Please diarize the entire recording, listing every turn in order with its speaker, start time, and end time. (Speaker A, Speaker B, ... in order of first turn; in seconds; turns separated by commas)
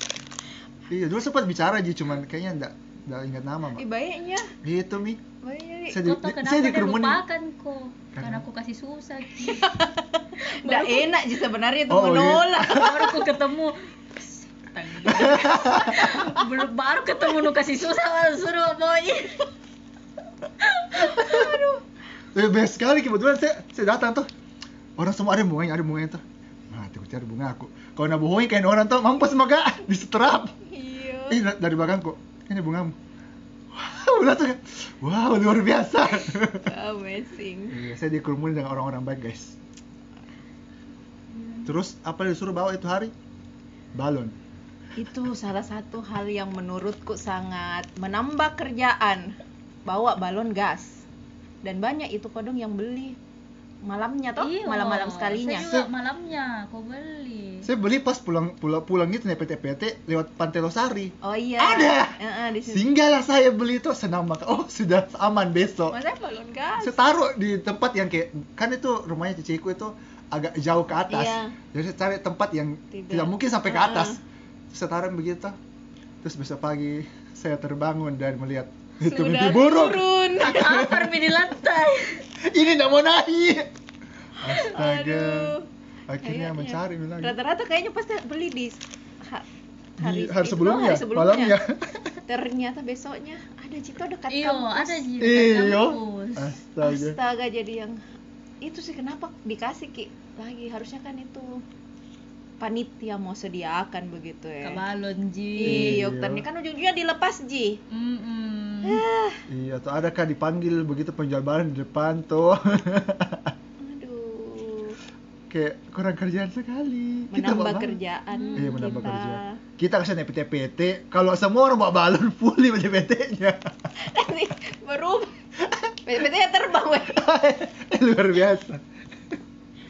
Speaker A: 0.9-3.8, Speaker B: 3.7-4.5, Speaker A: 4.6-5.2, Speaker B: 5.4-6.0, Speaker A: 5.9-7.2, Speaker C: 6.0-9.8, Speaker A: 8.1-8.4, Speaker B: 9.4-13.0, Speaker C: 10.4-11.1, Speaker A: 11.9-13.2, Speaker C: 12.6-19.5, Speaker B: 15.0-16.4, Speaker A: 15.1-16.2, Speaker C: 20.6-21.5, Speaker B: 21.0-21.8, Speaker A: 22.3-24.3, Speaker A: 25.0-30.5, Speaker B: 30.6-31.4, Speaker A: 31.3-33.0, Speaker A: 33.7-36.7, Speaker B: 36.1-37.8, Speaker A: 37.7-39.6, Speaker C: 41.4-41.7, Speaker A: 41.6-43.1, Speaker A: 43.9-44.3, Speaker B: 45.0-51.0, Speaker B: 51.6-53.2, Speaker B: 53.8-55.6, Speaker C: 54.4-57.7, Speaker A: 55.6-55.9, Speaker A: 57.6-66.0, Speaker B: 61.2-62.8, Speaker B: 65.9-67.0, Speaker A: 66.8-75.6, Speaker B: 71.1-71.6, Speaker B: 72.9-74.2, Speaker A: 76.2-81.2, Speaker B: 79.0-80.6, Speaker C: 80.4-82.3, Speaker A: 82.4-83.7, Speaker A: 84.4-85.5, Speaker B: 84.5-85.7, Speaker A: 86.1-87.4, Speaker B: 86.2-89.5, Speaker B: 90.0-91.6, Speaker A: 90.0-92.0, Speaker B: 92.2-95.1, Speaker C: 94.3-96.6, Speaker A: 95.2-97.2, Speaker B: 96.8-98.0, Speaker B: 98.6-101.6, Speaker B: 102.6-104.8, Speaker C: 104.6-105.9, Speaker B: 105.5-107.8, Speaker A: 105.6-106.4, Speaker C: 107.9-109.0, Speaker B: 108.8-109.4, Speaker A: 109.5-113.5, Speaker B: 113.8-115.0, Speaker A: 115.5-118.0, Speaker B: 117.3-119.6, Speaker C: 118.3-119.1, Speaker A: 118.5-123.6, Speaker B: 124.0-125.3, Speaker A: 125.7-125.9, Speaker B: 126.0-127.2, Speaker A: 127.1-128.8